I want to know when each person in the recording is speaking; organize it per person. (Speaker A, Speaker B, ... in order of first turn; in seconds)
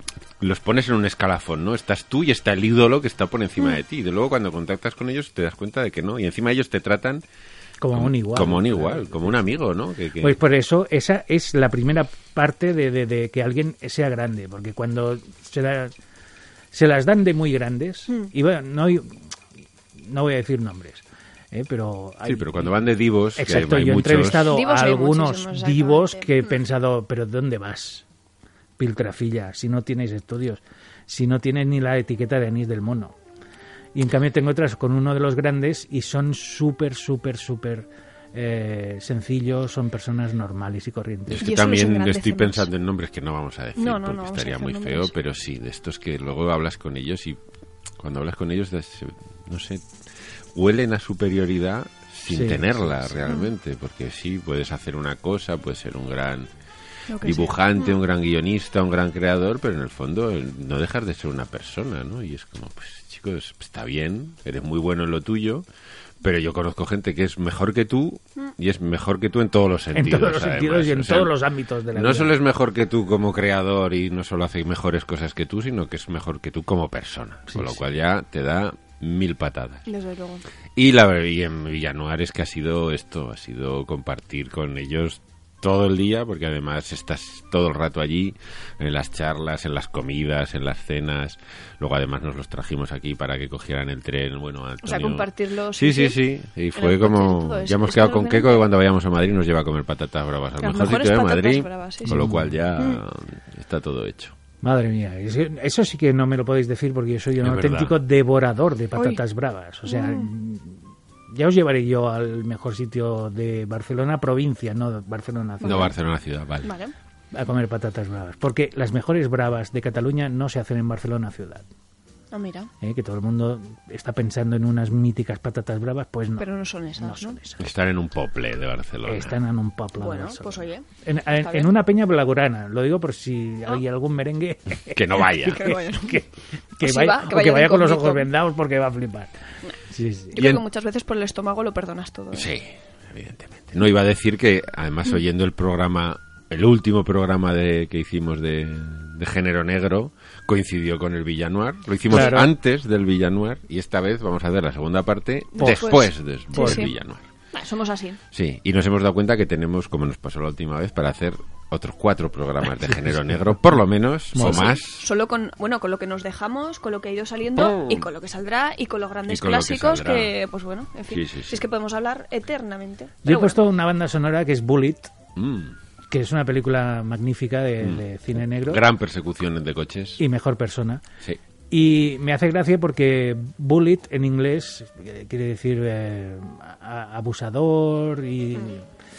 Speaker A: 0.4-7.2, 7.9-10.4, 22.2-24.5, 41.3-47.4, 48.0-49.9, 50.5-56.5, 57.2-65.6, 66.2-71.3, 71.9-79.8, 80.8-104.3, 107.4-108.0, 115.6-116.7, 127.6-129.4, 134.9-135.7, 140.3-140.6, 142.3-157.2, 158.3-165.1, 167.6-168.0, 169.3-170.3, 171.1-171.6, 175.3-175.8, 177.8-180.2
Speaker B: 7.8-9.3, 10.2-15.9, 16.7-19.2, 20.0-22.7, 23.4-28.0, 28.8-33.1, 33.9-41.4, 52.3-53.1, 69.9-72.3, 77.5-77.8, 102.0-102.5, 104.6-110.8, 111.3-115.9, 117.3-121.6, 122.8-126.5, 127.0-127.6, 129.1-136.2, 136.8-139.3, 139.9-140.3, 152.1-152.4, 155.6-155.9, 156.5-156.8, 162.9-163.2, 164.3-164.7, 173.2-175.1, 176.1-178.8, 180.2-181.0, 181.7-188.8
Speaker C: 24.5-26.5, 41.4-42.7, 43.8-45.1, 57.1-58.0, 79.8-80.4, 94.8-96.2, 96.7-98.7, 100.6-103.0, 109.0-109.2, 109.8-110.3, 115.6-115.9, 116.6-116.9, 122.3-122.7, 126.4-127.4, 130.0-131.7, 135.4-136.2, 136.8-138.3, 140.3-142.5, 152.1-152.5, 155.6-156.9, 157.5-158.2, 164.4-173.6